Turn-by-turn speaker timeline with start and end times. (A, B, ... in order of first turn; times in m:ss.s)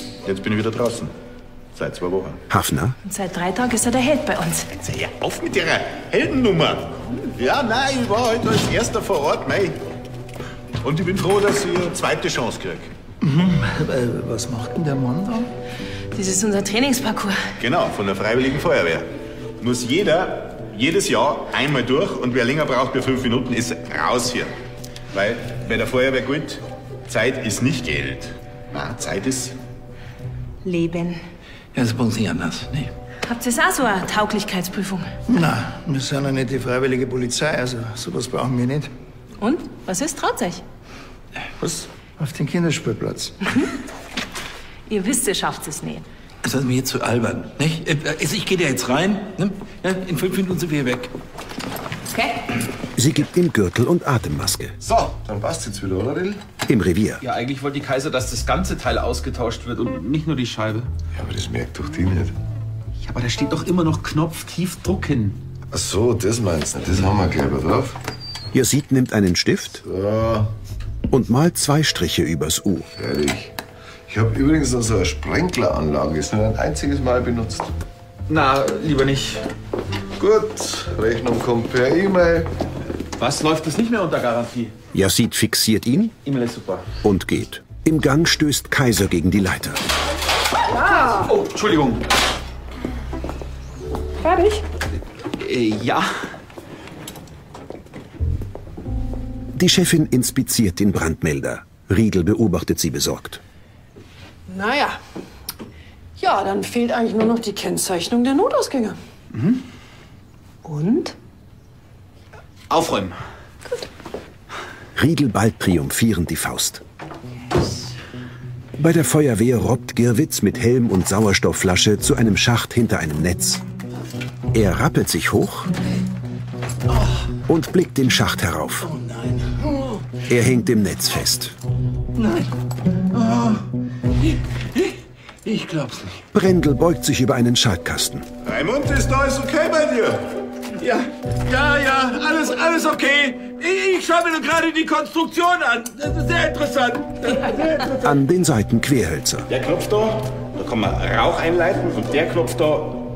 0:00.2-0:01.1 A
0:01.8-0:02.4 A
0:02.5-0:03.0 B
0:03.0-0:04.7 C
0:04.8-0:09.8 A
0:10.8-0:12.9 A
0:13.2-0:15.5 D
0:16.2-0:17.4 C
0:17.6-0:19.1 A
0:19.6-0:24.6 A
0:25.1-0:29.6 A
0:31.7-0:32.9 E
0:33.2-0:35.1 C
0:35.3-0:38.9 D
0:39.4-0:40.6 C
0:41.6-0:43.4 D
0:44.9-0:46.0 C
0:46.4-0:51.1 E
0:53.0-0:54.8 B
0:54.8-0:55.1 F
0:55.1-0:56.4 G
0:56.7-0:57.2 B
0:57.2-1:00.9 F
1:01.1-1:02.3 G
1:03.0-1:05.4 F
1:05.7-1:08.0 G
1:08.5-1:09.8 B
1:09.8-1:10.5 G
1:11.1-1:12.9 B
1:13.0-1:13.5 G
1:14.1-1:17.7 G
1:18.3-1:19.5 F
1:20.2-1:22.5 G
1:23.2-1:24.8 F
1:24.9-1:26.2 B
1:26.2-1:26.8 F
1:27.0-1:29.8 B
1:30.7-1:31.3 C
1:31.2-1:32.0 F
1:34.2-1:34.6 C
1:35.4-1:36.2 F
1:39.6-1:43.4 B
1:44.5-1:45.0 C
1:46.2-1:49.0 C
1:49.3-1:49.6 F
1:50.6-1:51.1 C
1:52.7-1:53.2 F
1:55.0-1:56.8 B
1:58.8-2:03.6 B
2:04.5-2:05.7 B
2:07.5-2:08.9 B
2:08.8-2:10.0 E
2:10.3-2:11.6 B
2:12.2-2:12.5 E
2:13.1-2:13.6 E
2:14.2-2:16.2 E
2:16.3-2:18.3 B
2:18.4-2:20.3 A
2:20.8-2:28.0 E
2:28.0-2:29.5 B
2:29.5-2:30.3 A
2:30.5-2:32.9 F
2:31.8-2:32.9 A